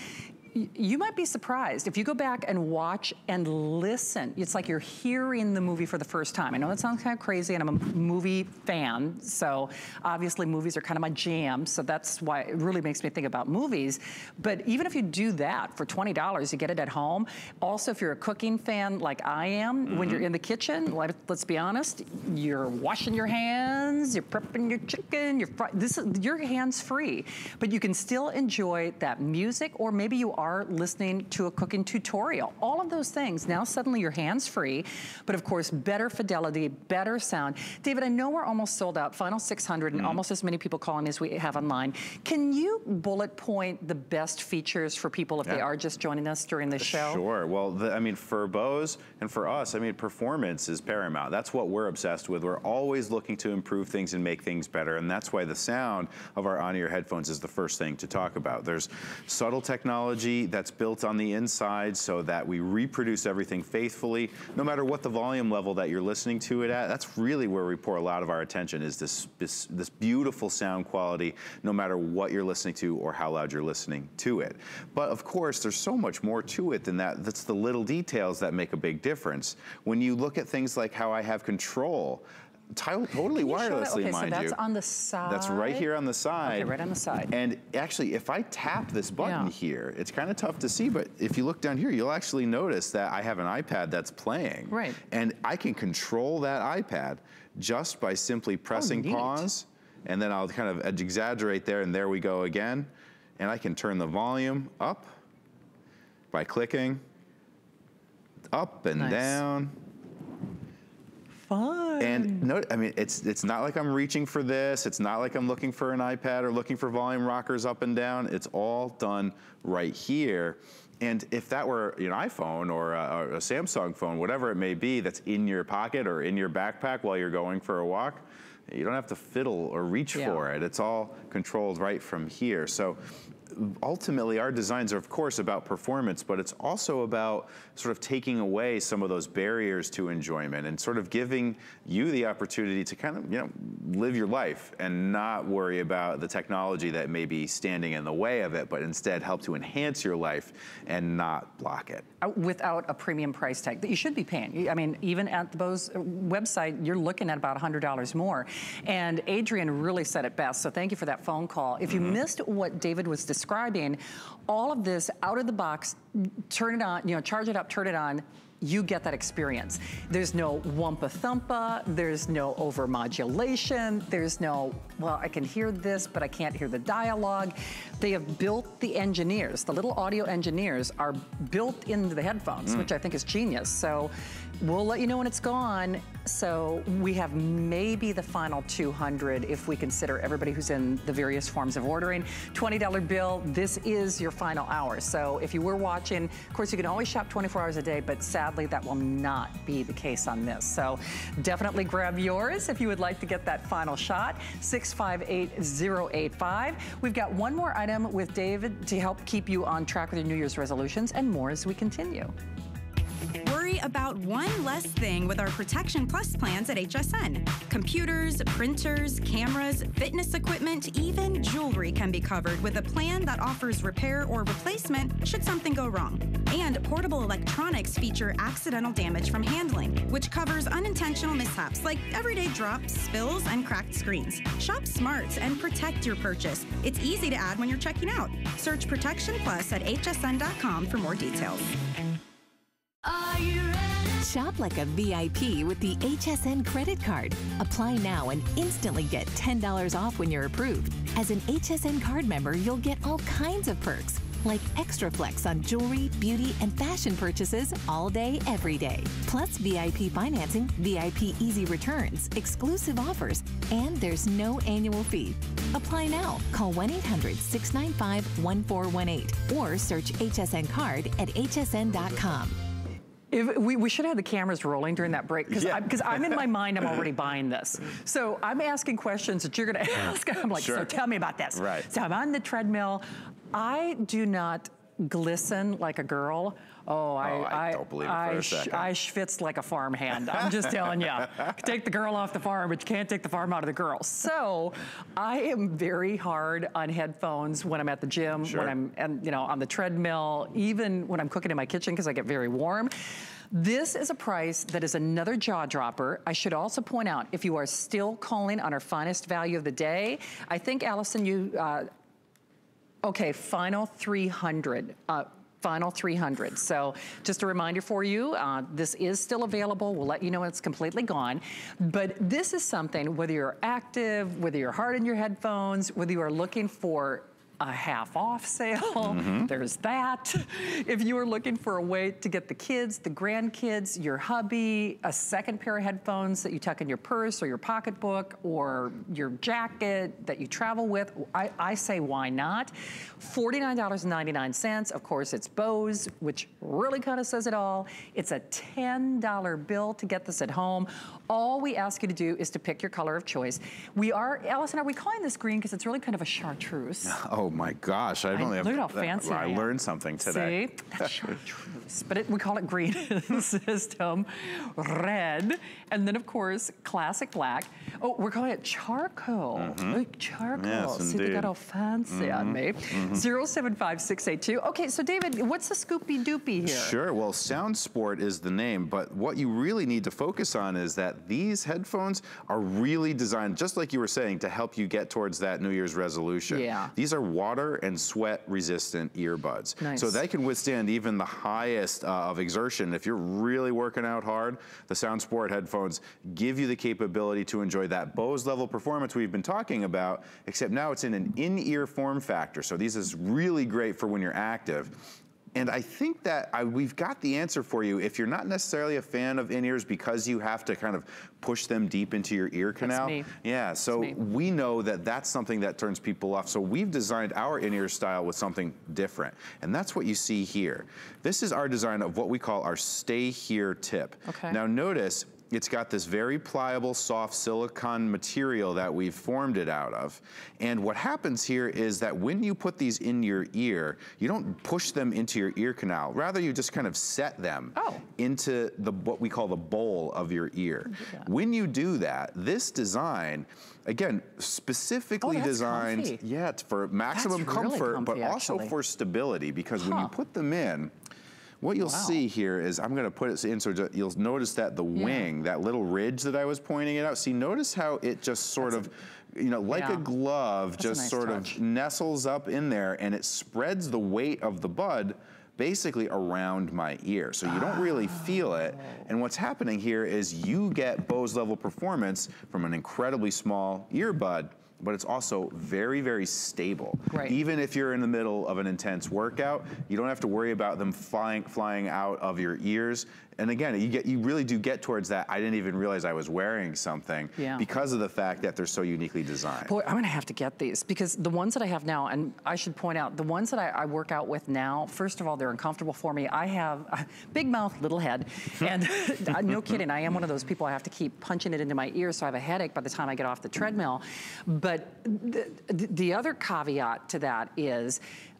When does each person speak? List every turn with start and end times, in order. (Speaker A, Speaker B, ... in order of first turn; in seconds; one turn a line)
Speaker A: 0.5-47.2
Speaker B: 19.9-20.3
Speaker B: 39.9-40.2
Speaker B: 46.8-84.6
Speaker A: 83.3-85.9
Speaker B: 85.2-86.7
Speaker A: 86.4-87.3
Speaker B: 87.3-105.1
Speaker A: 89.2-89.5
Speaker A: 94.7-95.0
Speaker A: 98.7-99.5
Speaker B: 106.3-107.0
Speaker B: 108.5-109.8
Speaker A: 109.0-109.4
Speaker A: 111.4-112.5
Speaker B: 112.0-152.0
Speaker A: 130.1-130.4
Speaker A: 152.2-212.3
Speaker B: 161.9-162.2
Speaker B: 182.6-182.9
Speaker C: 213.4-241.7
Speaker D: 244.0-272.6
Speaker A: 273.3-302.9
Speaker B: 275.5-276.4
Speaker B: 280.5-280.9
Speaker B: 281.5-281.9
Speaker B: 287.2-288.9
Speaker B: 298.4-298.7
Speaker A: 303.5-311.9
Speaker A: 313.0-357.1
Speaker B: 329.0-329.5
Speaker B: 357.0-361.3
Speaker A: 358.3-376.9
Speaker B: 369.6-370.0
Speaker B: 370.6-371.5
Speaker B: 372.1-373.2
Speaker B: 376.6-450.9
Speaker A: 386.5-386.9
Speaker A: 389.8-390.2
Speaker A: 412.8-413.3
Speaker A: 424.2-424.6
Speaker A: 437.7-438.0
Speaker A: 441.0-441.3
Speaker A: 445.2-446.2
Speaker A: 447.1-448.7
Speaker A: 449.8-450.1
Speaker B: 451.6-489.7
Speaker A: 451.8-452.2
Speaker A: 454.9-455.3
Speaker A: 458.6-458.9
Speaker A: 459.7-460.1
Speaker A: 460.8-461.6
Speaker A: 467.6-469.1
Speaker A: 477.1-477.4
Speaker A: 487.4-487.6
Speaker A: 489.6-508.0